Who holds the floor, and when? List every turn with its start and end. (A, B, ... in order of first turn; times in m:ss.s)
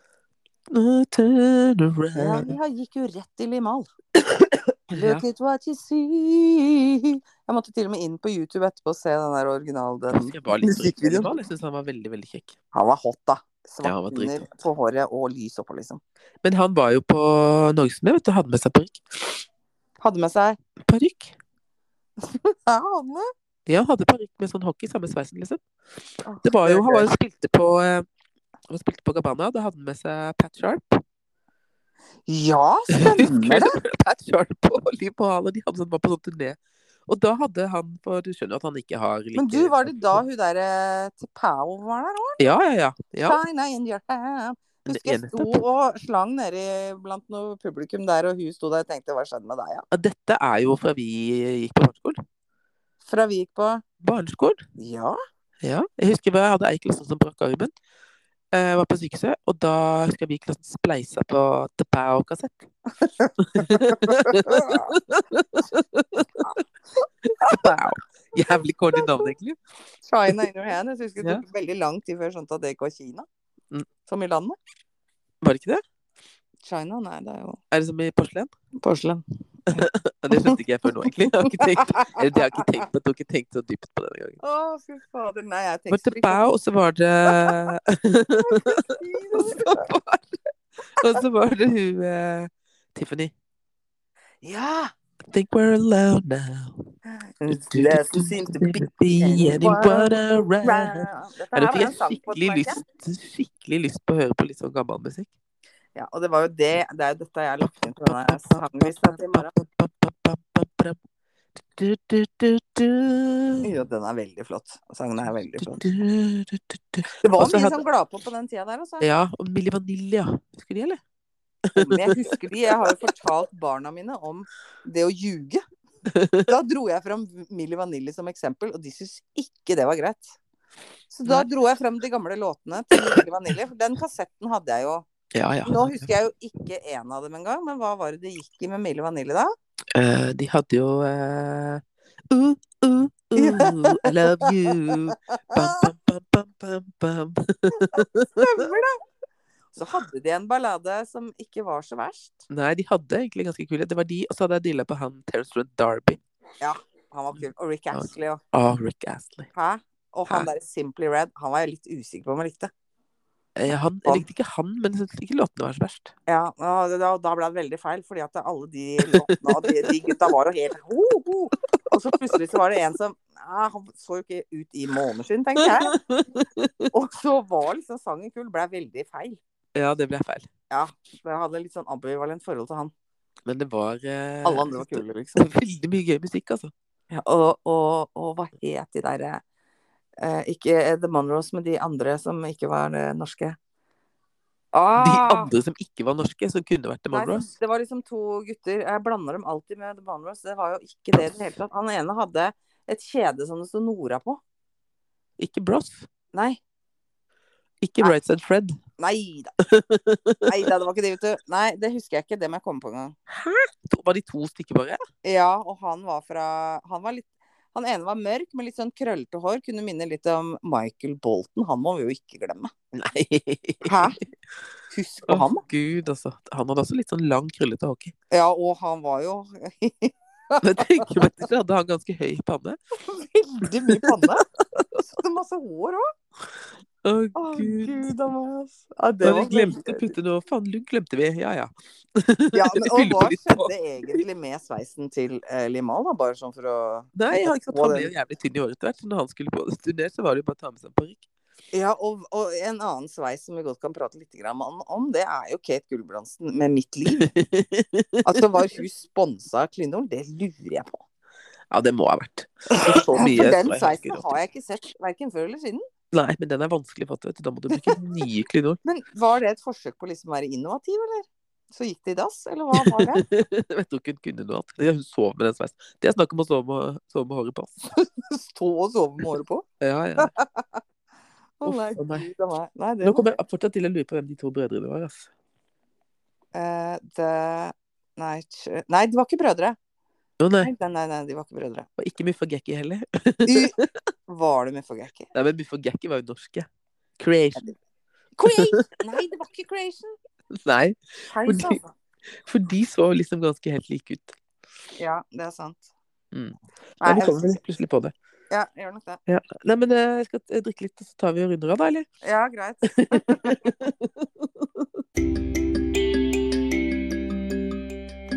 0:00.7-0:02.5 A
0:02.1-0:03.9 B
0:04.3-0:05.2 A
0:04.9-0:11.3 B
0:10.1-0:12.6 A
0:12.7-0:16.0 B
0:13.8-0:14.5 A
0:16.4-0:19.4 A
0:20.0-0:20.6 B
0:20.8-0:21.3 A
0:22.2-0:23.3 B
0:23.7-0:25.6 A
0:26.2-0:27.1 B
0:26.4-0:28.0 A
0:28.7-0:31.0 A
0:32.3-0:33.7 B
0:32.9-0:40.2 A
0:39.4-0:42.4 B
0:42.4-0:43.4 A
0:43.2-0:49.8 B
0:44.9-0:45.6 A
0:49.9-0:52.2 A
0:53.0-0:53.8 B
0:54.0-0:54.6 A
0:54.8-0:55.2 B
0:55.6-0:57.7 A
0:58.5-1:02.7 A
1:03.0-1:05.0 B
1:03.4-1:06.6 A
1:06.4-1:07.7 B
1:07.2-1:09.6 A
1:08.9-1:09.3 B
1:10.0-1:13.2 B
1:14.0-1:14.6 B
1:15.4-1:15.8 A
1:16.6-1:17.6 B
1:17.7-1:18.5 A
1:18.8-1:22.6 B
1:19.7-1:24.4 A
1:24.4-1:26.5 B
1:25.9-1:30.4 A
1:27.3-1:27.7 B
1:28.4-1:29.8 B
1:31.0-1:33.3 A
1:34.4-1:34.9 B
1:35.3-1:36.8 A
1:37.1-1:42.8 B
1:37.5-1:45.3 A
1:46.0-1:49.5 B
1:47.7-1:51.0 A
1:51.5-1:53.6 A
1:53.6-1:55.8 B
1:55.6-1:57.8 A
1:57.2-1:59.0 B
1:59.0-2:01.0 A
2:01.7-2:03.0 A
2:01.7-2:05.6 B
2:06.1-2:06.5 A
2:06.5-2:10.4 B
2:11.1-2:15.0 B
2:15.3-2:16.1 A
2:15.6-2:19.5 B
2:19.9-2:28.4 A
2:23.4-2:25.0 B
2:25.5-2:25.9 B
2:27.8-2:29.0 B
2:29.7-2:32.4 B
2:32.5-2:36.2 A
2:36.6-2:38.4 B
2:37.9-2:39.5 A
2:39.5-2:42.7 B
2:43.5-2:46.1 A
2:46.3-2:56.0 B
2:49.0-2:50.3 A
2:55.6-2:56.9 A
2:56.9-2:59.4 B
2:59.7-3:00.5 A
3:00.7-3:02.9 B
3:03.4-3:06.7 A
3:04.4-3:05.4 B
3:07.1-3:09.4 B
3:10.2-3:13.6 B
3:14.7-3:15.5 B
3:15.0-3:17.5 A
3:17.1-3:24.4 B
3:25.4-3:26.1 A
3:26.3-3:26.6 B
3:27.8-3:28.8 A
3:29.0-3:29.5 B
3:29.6-3:30.7 A
3:30.4-3:33.1 B
3:33.3-3:35.0 A
3:35.2-3:42.7 B
3:42.9-3:44.2 A
3:43.8-3:44.2 B
3:44.9-3:45.6 B
3:45.3-3:48.1 A
3:48.3-3:51.1 B
3:50.6-3:52.8 A
3:53.0-3:54.4 B
3:53.9-3:54.8 A
3:55.0-3:56.0 B
3:57.0-3:58.1 A
3:57.3-4:00.1 B
3:59.2-4:04.2 A
4:02.5-4:08.1 B
4:07.1-4:11.2 A
4:11.7-4:17.3 B
4:17.2-4:18.4 A
4:18.2-4:21.0 B
4:21.7-4:24.4 A
4:22.7-4:25.8 B
4:26.1-4:28.8 A
4:27.7-4:28.0 B
4:28.8-4:33.2 B
4:32.8-4:37.8 A
4:37.9-4:39.6 B
4:39.8-4:40.3 A
4:40.2-4:40.8 B
4:41.6-4:43.3 B
4:41.6-4:42.3 A
4:43.0-4:45.3 A
4:46.5-4:49.8 B
4:50.4-4:50.7 A
4:50.6-4:51.9 B
4:52.0-4:53.9 A
4:53.4-4:53.7 B
4:54.3-4:55.3 B
4:55.3-4:56.7 A
4:57.2-4:57.7 A
4:58.4-5:00.1 B
4:58.4-4:59.2 A
5:00.5-5:01.8 A
5:01.3-5:01.9 B
5:02.4-5:04.4 A
5:05.0-5:05.9 B
5:06.3-5:08.1 A
5:07.0-5:07.6 B
5:08.5-5:09.2 B
5:09.3-5:12.0 A
5:12.2-5:13.7 B
5:12.9-5:15.0 A